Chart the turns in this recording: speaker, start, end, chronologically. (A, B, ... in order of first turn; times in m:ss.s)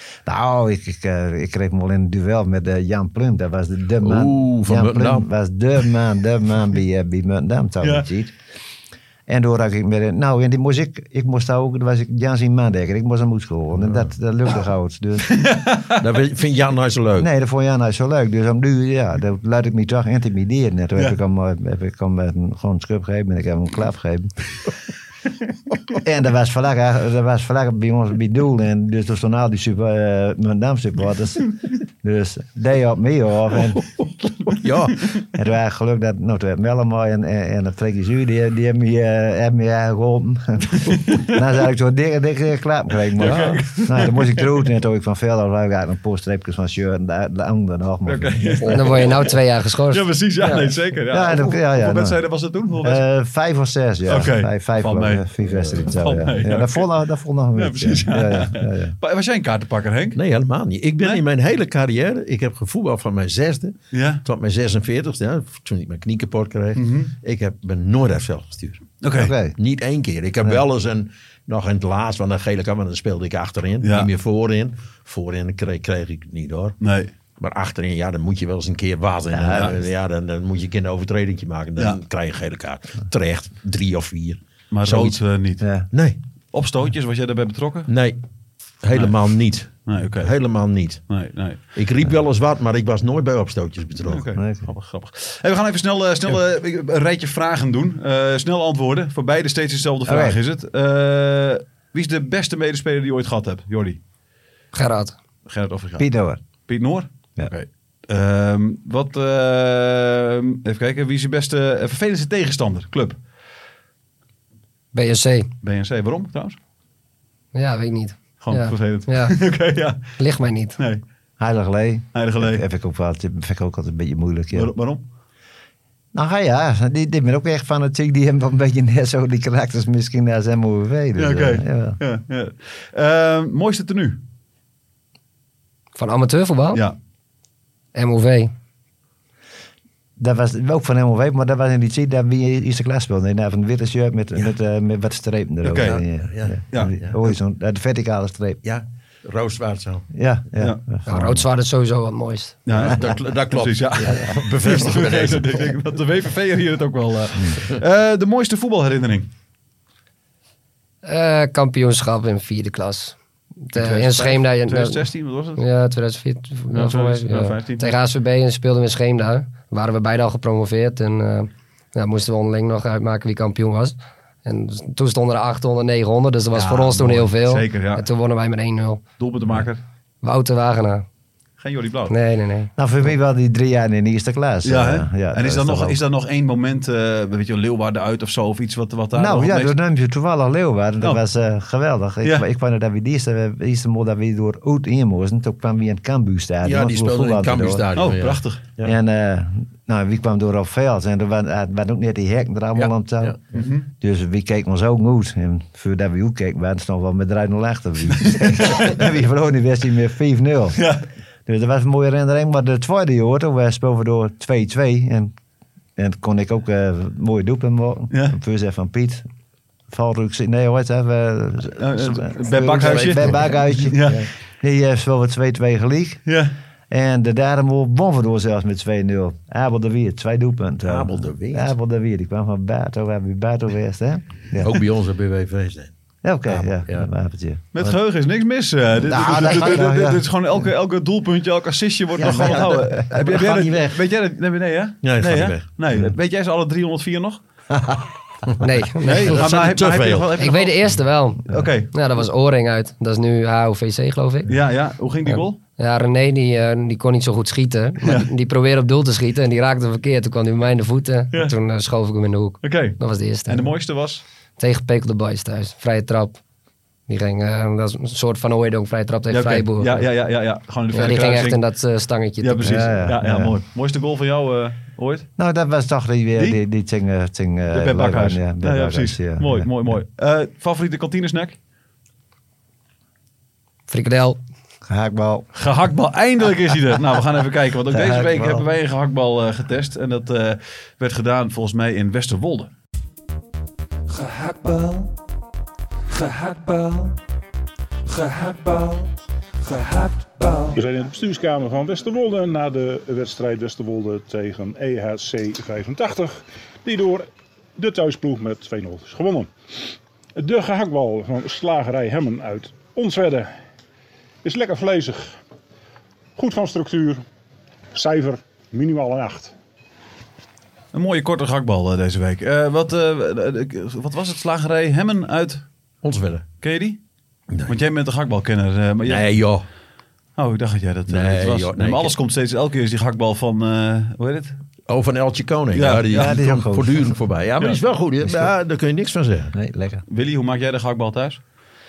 0:00.2-0:08.3 A
0:04.0-0:05.2 B
0:07.8-0:08.1 C
0:09.3-0:15.3 A
0:13.8-0:14.1 B
0:15.2-0:16.0 C
0:15.9-0:17.3 B
0:17.2-0:24.3 A
0:26.0-0:31.5 A
0:32.0-0:33.8 A
0:34.5-0:35.1 B
0:35.3-0:48.7 A
0:40.9-0:41.4 C
0:43.1-0:44.6 C
0:43.2-0:43.6 B
0:48.0-0:53.0 C
0:48.7-0:50.7 D
0:51.1-0:52.2 A
0:52.8-0:59.0 A
0:54.0-0:56.9 C
0:55.6-0:55.8 B
0:57.5-1:00.2 C
1:00.1-1:09.0 B
1:03.9-1:04.2 C
1:06.7-1:07.1 C
1:09.0-1:09.3 C
1:09.1-1:09.5 A
1:09.6-1:16.8 B
1:13.8-1:14.1 C
1:16.8-1:17.1 C
1:17.4-1:25.2 B
1:19.3-1:19.7 A
1:24.7-1:25.6 C
1:25.6-1:25.9 A
1:25.9-1:26.2 B
1:26.5-1:27.9 C
1:27.9-1:28.2 B
1:28.8-1:31.0 B
1:29.8-1:30.3 C
1:31.1-1:31.6 C
1:31.7-1:34.3 B
1:34.0-1:44.0 C
1:34.4-1:34.6 A
1:40.0-1:40.4 A
1:44.7-1:45.1 D
1:45.4-1:46.1 C
1:46.0-1:46.4 A
1:46.6-1:53.2 C
1:54.9-1:55.5 D
1:55.6-1:56.6 C
1:57.5-1:59.4 D
1:58.4-2:00.2 C
2:00.2-2:00.8 D
2:01.4-2:04.7 A
2:02.1-2:02.6 C
2:04.5-2:05.0 C
2:06.1-2:12.0 A
2:11.2-2:14.2 C
2:16.0-2:16.8 D
2:17.9-2:18.5 D
2:20.2-2:28.6 A
2:25.6-2:26.0 C
2:26.2-2:27.1 B
2:28.6-2:30.1 B
2:30.1-2:31.4 A
2:31.1-2:32.6 D
2:32.6-2:39.3 C
2:32.7-2:35.7 B
2:41.0-2:43.2 D
2:43.7-2:45.0 D
2:43.7-2:45.6 C
2:45.6-2:59.0 D
2:46.7-2:48.0 C
2:56.5-2:58.0 C
2:59.2-2:59.8 C
3:00.2-3:01.0 D
3:01.6-3:02.1 C
3:02.1-3:02.7 D
3:02.8-3:06.0 A
3:04.6-3:09.8 C
3:09.1-3:17.8 A
3:16.6-3:18.9 B
3:17.9-3:18.6 C
3:18.8-3:23.4 A
3:22.8-3:23.4 B
3:23.5-3:23.9 C
3:24.0-3:30.8 A
3:28.2-3:28.9 C
3:30.8-3:31.0 C
3:31.4-3:35.3 A
3:36.0-3:39.2 A
3:38.1-3:38.4 C
3:39.9-3:46.2 A
3:41.8-3:44.2 C
3:42.8-3:43.5 B
3:46.2-3:46.5 C
3:46.9-3:54.7 A
3:50.8-3:51.7 B
3:54.6-3:55.9 B
3:56.2-3:58.0 A
3:56.5-3:57.1 B
3:57.7-4:07.4 C
3:59.0-4:00.2 A
4:02.2-4:04.0 B
4:02.2-4:03.0 A
4:05.0-4:05.6 B
4:07.7-4:08.0 A
4:08.6-4:09.4 D
4:09.0-4:10.9 C
4:09.3-4:10.4 B
4:10.4-4:14.5 D
4:11.5-4:11.9 C
4:14.5-4:15.6 C
4:15.3-4:23.7 D
4:18.0-4:18.3 C
4:22.6-4:24.2 C
4:24.6-4:26.4 D
4:27.1-4:30.1 D
4:29.3-4:31.6 C
4:30.9-4:32.8 D
4:32.4-4:35.3 C
4:32.6-4:33.6 A
4:35.4-4:40.0 A
4:37.7-4:41.6 C
4:43.9-4:44.4 D
4:44.9-4:45.5 A
4:45.5-4:52.7 C
4:47.9-4:48.6 A
4:54.1-4:55.1 C
4:56.1-4:57.1 C
4:58.1-4:59.1 C
4:59.6-5:00.8 C
5:00.7-5:09.5 E
5:10.4-5:13.5 E
5:14.4-5:15.4 E
5:16.4-5:17.2 E
5:17.9-5:19.5 E
5:20.9-5:25.6 C
5:26.0-5:26.4 B
5:26.6-5:27.0 C
5:27.7-5:29.2 C
5:29.0-5:29.6 B
5:30.4-5:34.6 C
5:31.1-5:32.1 B
5:34.9-5:39.5 B
5:35.7-5:36.4 C
5:36.1-5:37.1 A
5:39.5-5:40.0 A
5:40.1-5:41.4 C